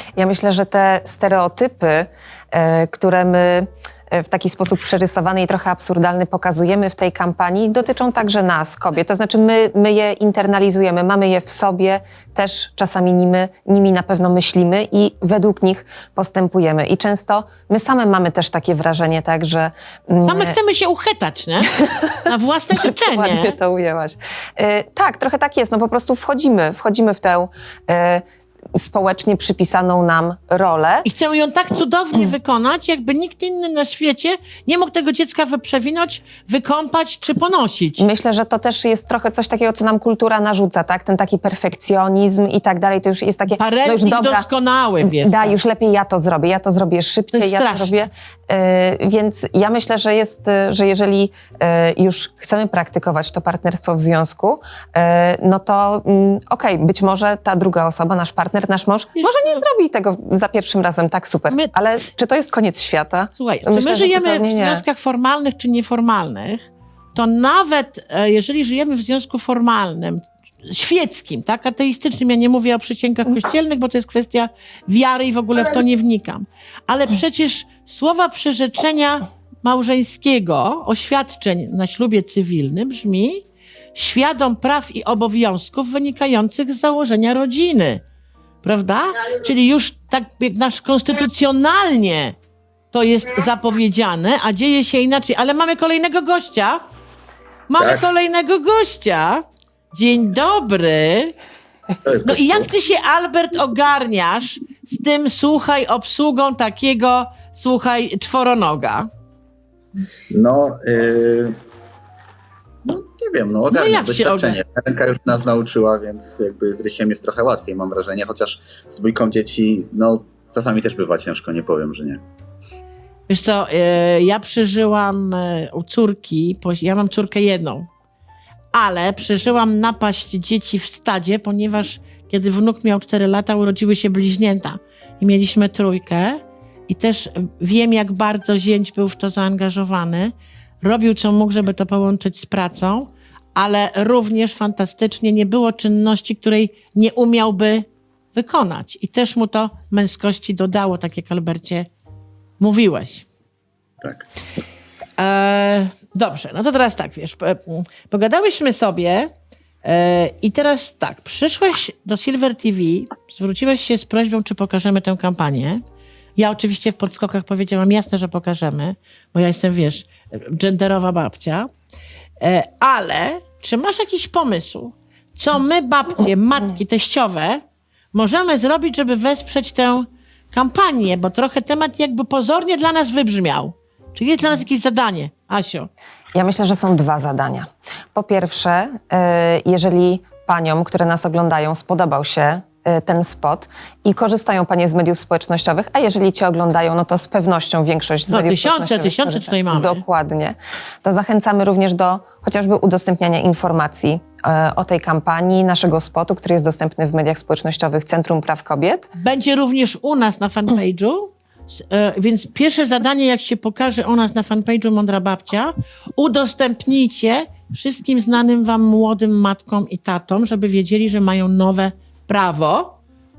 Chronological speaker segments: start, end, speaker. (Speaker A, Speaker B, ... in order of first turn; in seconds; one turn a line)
Speaker A: 0.1-20.6
Speaker B: 20.2-23.5
Speaker A: 21.9-22.1
Speaker A: 22.8-31.1
Speaker B: 31.0-38.0
Speaker A: 38.0-44.5
Speaker B: 43.6-45.5
Speaker A: 45.2-64.8
Speaker B: 47.3-48.0
Speaker B: 59.1-59.6
Speaker B: 61.5-61.8
Speaker B: 63.3-83.4
Speaker B: 83.9-88.0
Speaker B: 88.6-92.3
Speaker B: 92.9-96.8
Speaker B: 97.7-101.3
Speaker C: 102.0-102.7
Speaker B: 102.2-109.1
Speaker C: 110.3-111.6
Speaker C: 112.8-122.2
Speaker B: 113.7-114.6
Speaker B: 123.3-127.9
Speaker B: 128.7-151.9
Speaker B: 152.6-153.2
Speaker B: 155.2-159.3
Speaker B: 159.8-165.8
Speaker B: 166.4-171.7
Speaker B: 172.4-177.6
Speaker B: 178.1-185.9
Speaker A: 186.3-209.1
Speaker B: 198.3-200.0
Speaker B: 209.2-222.9